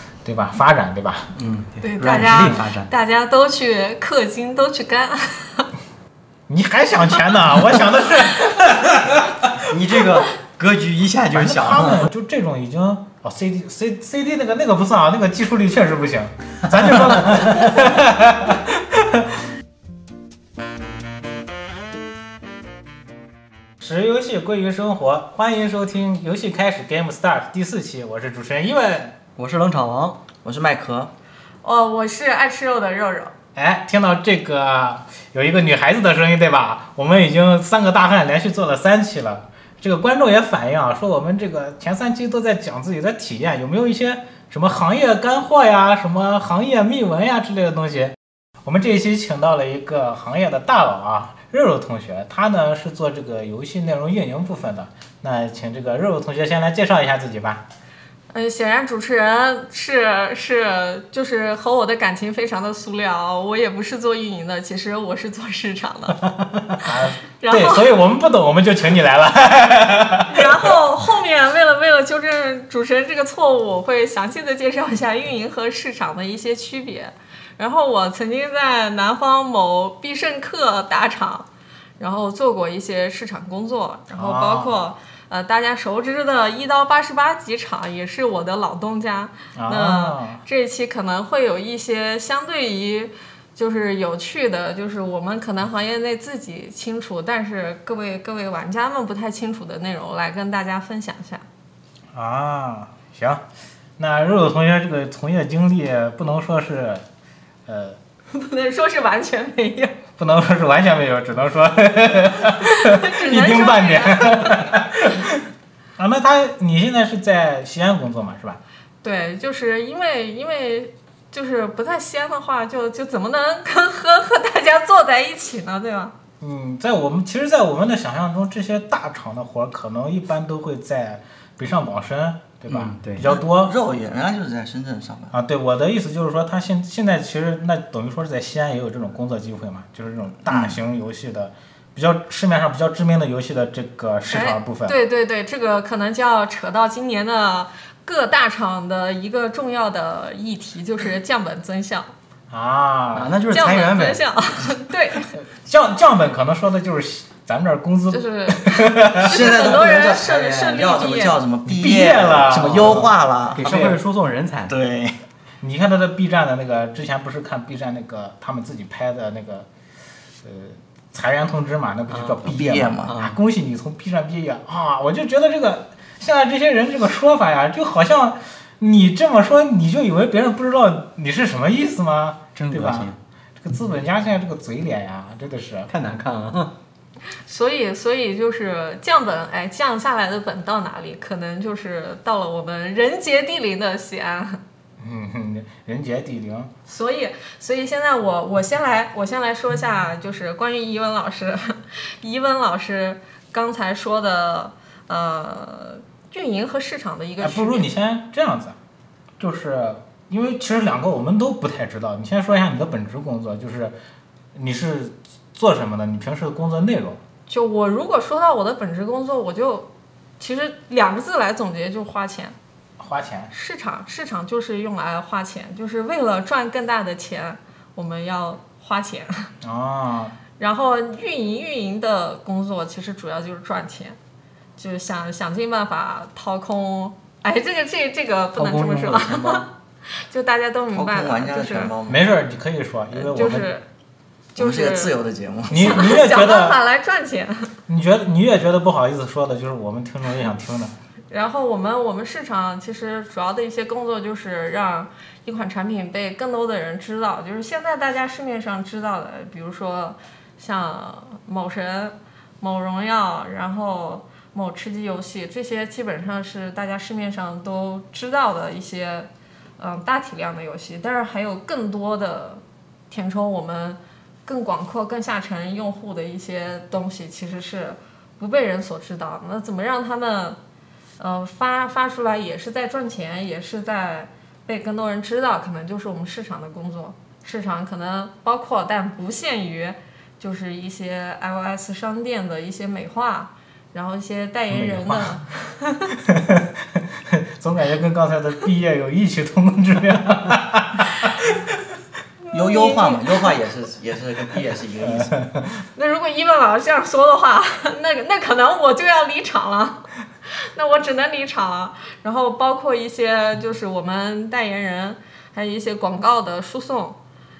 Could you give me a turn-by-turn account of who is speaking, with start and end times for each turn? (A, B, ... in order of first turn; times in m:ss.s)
0:00.2-0:01.3 A
0:01.3-0:02.9 B
0:01.8-0:05.7 C
0:06.5-0:09.6 A
0:09.7-0:12.1 B
0:11.3-0:19.3 A
0:23.8-0:29.2 A
0:29.4-0:30.2 B
0:30.4-0:31.1 D
0:31.6-0:33.3 C
0:33.6-0:57.6 A
0:58.3-1:06.2 C
1:06.3-1:10.8 A
1:06.8-1:08.0 C
1:10.3-1:21.5 C
1:22.0-1:41.4 C
1:24.1-1:24.7 A
1:29.6-1:30.4 A
1:42.1-1:43.4 A
1:44.0-1:47.0 A
1:47.6-1:48.0 A
1:48.3-1:50.0 C
1:50.2-1:55.4 A
1:52.5-1:54.7 C
1:56.0-1:58.6 A
1:59.0-2:06.1 C
2:06.4-2:13.7 A
2:12.7-2:13.3 B
2:13.2-2:15.3 D
2:15.3-2:24.9 A
2:20.5-2:20.8 D
2:24.3-2:32.1 C
2:32.5-2:33.4 A
2:33.1-2:34.2 B
2:33.5-2:35.3 C
2:35.3-2:39.4 A
2:38.1-2:41.4 C
2:39.2-2:44.0 D
2:41.7-2:43.1 A
2:42.5-2:44.7 B
2:43.7-2:44.0 A
2:44.7-2:45.2 D
2:45.6-2:49.7 A
2:50.4-3:05.9 A
2:52.1-2:52.4 B
2:52.4-2:53.2 D
2:53.0-2:53.4 B
3:02.5-3:03.2 B
3:05.9-3:06.7 B
3:07.4-3:14.6 C
3:15.0-3:16.7 A
3:16.8-3:27.9 C
3:27.4-3:28.8 A
3:29.4-3:33.9 A
3:34.5-3:37.2 A
3:37.5-3:39.9 C
3:40.4-3:42.5 C
3:43.0-3:43.5 A
3:43.5-3:49.5 C
3:49.6-3:50.4 A
3:50.6-3:54.2 C
3:54.8-4:01.9 C
3:58.5-3:59.6 B
4:00.9-4:02.2 D
4:02.1-4:03.7 A
4:03.1-4:03.8 C
4:04.5-4:05.1 C
4:04.6-4:06.1 D
4:05.7-4:06.8 A
4:05.7-4:07.7 C
4:07.9-4:10.9 A
4:11.3-4:40.6 C
4:41.2-4:56.2 C
4:54.7-4:55.4 A
4:56.2-5:01.5 A
5:02.4-5:03.4 C
5:02.5-5:05.4 D
5:05.1-5:05.7 A
5:05.9-5:17.2 C